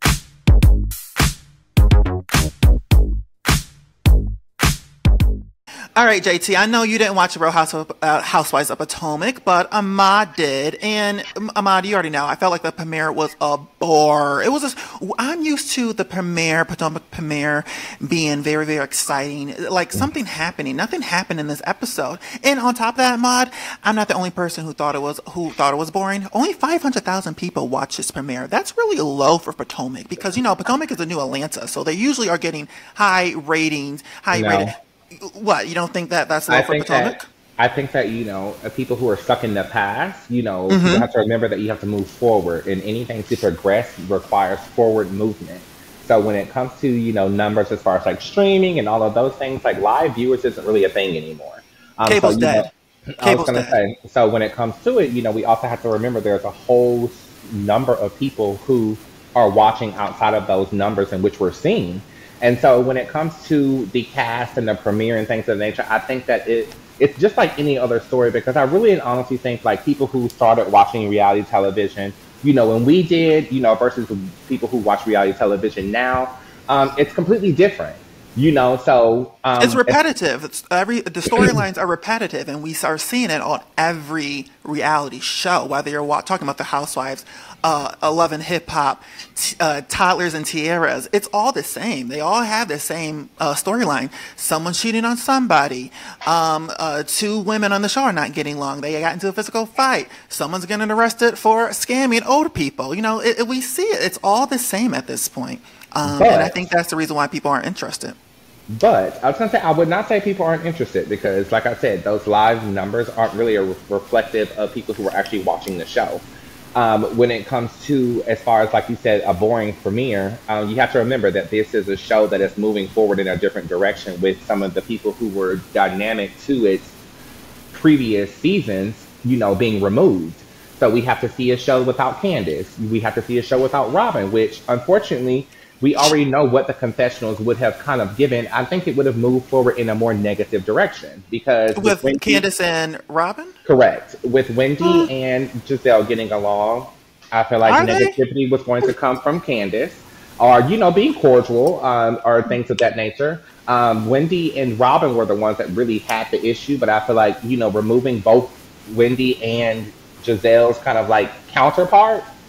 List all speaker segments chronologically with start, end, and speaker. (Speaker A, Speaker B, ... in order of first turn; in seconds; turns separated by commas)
Speaker A: 6.0-37.3, Speaker B: 34.3-34.7, Speaker B: 36.5-80.0, Speaker A: 40.7-41.1, Speaker A: 52.1-52.7, Speaker A: 53.2-53.8, Speaker A: 79.6-108.2, Speaker B: 106.0-106.5, Speaker B: 108.7-126.9, Speaker B: 127.7-142.4, Speaker A: 141.8-143.6, Speaker B: 143.7-162.3, Speaker A: 144.8-145.1, Speaker A: 147.7-148.2